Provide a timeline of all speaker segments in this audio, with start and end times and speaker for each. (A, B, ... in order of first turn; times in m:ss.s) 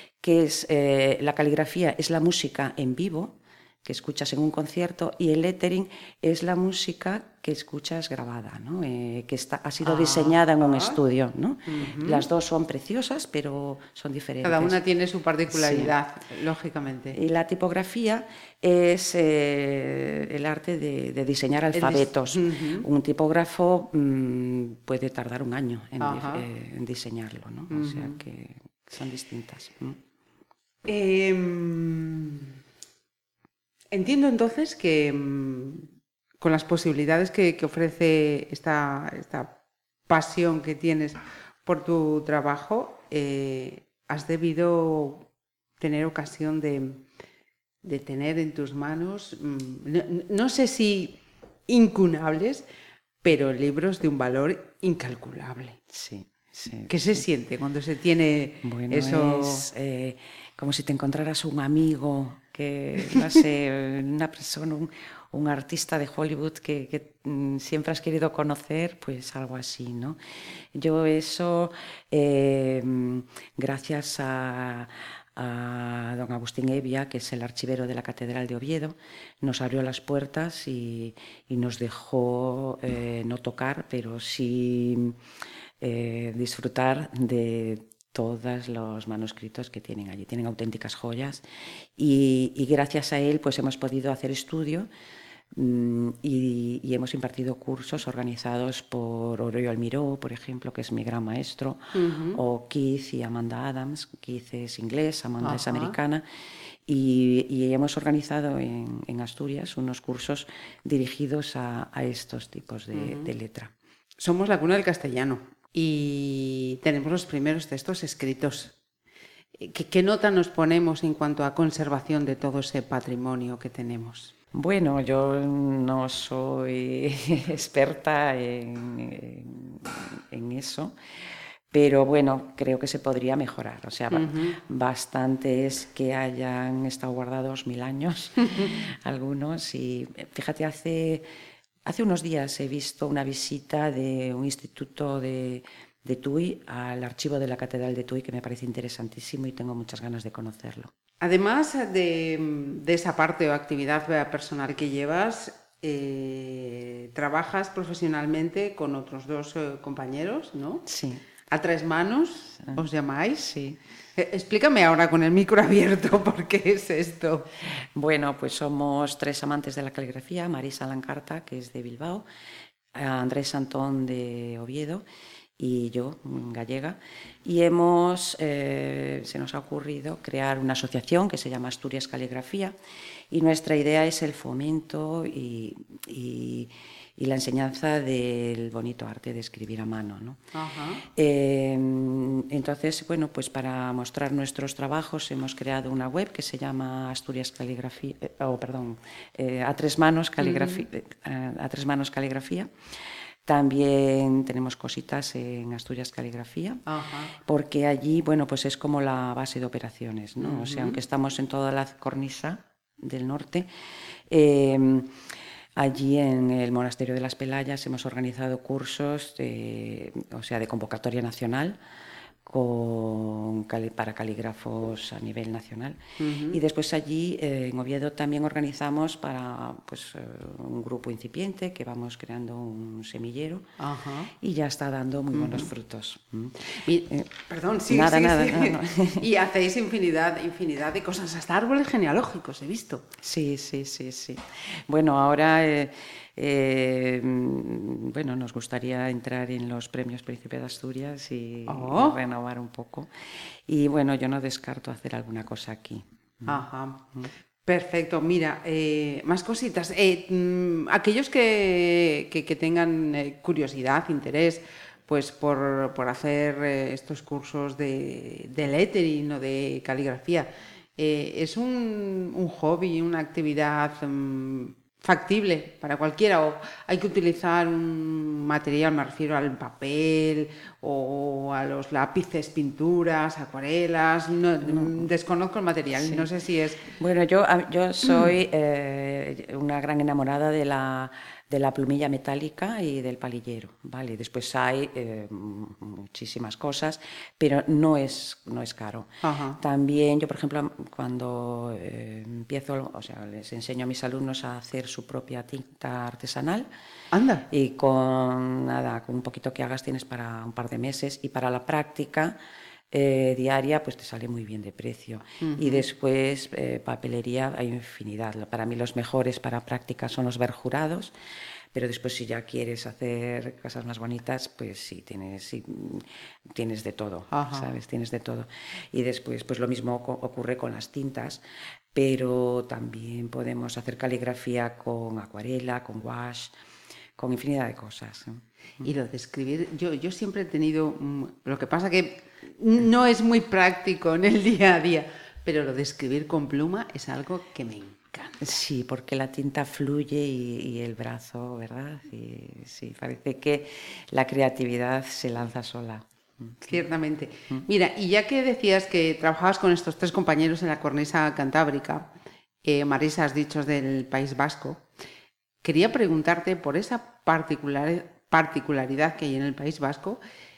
0:00.2-0:14.8 A
0:09.8-0:11.0 B
0:11.7-0:12.3 B
0:14.4-0:17.2 B
0:15.5-0:16.0 A
0:17.1-0:30.0 A
0:21.7-0:22.9 B
0:26.0-0:26.5 B
0:27.7-0:28.2 B
0:30.9-0:32.6 B
0:33.9-0:35.9 B
0:36.4-0:39.5 B
0:40.1-0:45.3 B
0:45.8-0:47.0 B
0:47.8-0:52.6 B
0:53.2-0:55.8 B
0:55.9-0:57.2 A
0:56.9-0:59.7 B
0:58.6-1:10.2 A
1:10.8-1:25.2 A
1:25.8-1:34.9 A
1:35.6-1:46.2 A
1:41.9-1:42.4 B
1:45.4-1:46.0 B
1:46.9-1:53.7 A
1:52.9-1:53.3 B
1:54.2-1:58.8 B
1:59.6-2:04.3 B
2:04.5-2:11.0 A
2:11.7-2:21.2 A
2:14.1-2:14.6 B
2:21.8-2:30.9 A
2:31.2-2:40.8 B
2:40.9-2:41.2 A
2:41.5-2:43.5 B
2:43.4-2:43.8 A
2:44.2-2:47.5 B
2:48.0-2:52.2 A
2:52.9-2:55.0 A
2:55.6-3:02.8 A
3:03.3-3:10.4 A
3:10.5-3:11.0 B
3:11.1-3:22.7 A
3:20.4-3:20.9 B
3:23.5-3:26.8 A
3:26.9-3:27.3 B
3:27.4-3:33.7 A
3:30.4-3:31.0 B
3:34.3-3:35.2 A
3:35.8-3:41.8 A
3:42.4-3:53.7 A
3:46.2-3:46.6 B
3:53.8-3:54.3 B
3:54.4-3:57.3 A
3:55.3-3:55.7 B
3:56.7-4:03.0 B
3:57.9-3:59.3 A
4:03.2-4:13.1 A
4:11.7-4:12.2 B
4:13.7-4:16.6 A
4:16.5-4:17.0 B
4:17.7-4:46.9 B
4:44.7-4:45.0 A
4:46.0-4:46.3 A
4:46.9-5:06.7 A
4:59.2-4:59.6 B
5:07.1-5:07.5 B
5:07.5-5:12.4 A
5:12.9-5:21.1 A
5:15.4-5:15.9 B
5:21.7-5:31.4 A
5:27.3-5:27.7 B
5:31.9-5:36.5 A
5:37.2-5:38.9 A
5:38.8-5:48.4 B
5:48.4-5:56.8 A
5:56.7-6:02.1 B
6:02.6-6:04.8 B
6:05.6-6:10.2 B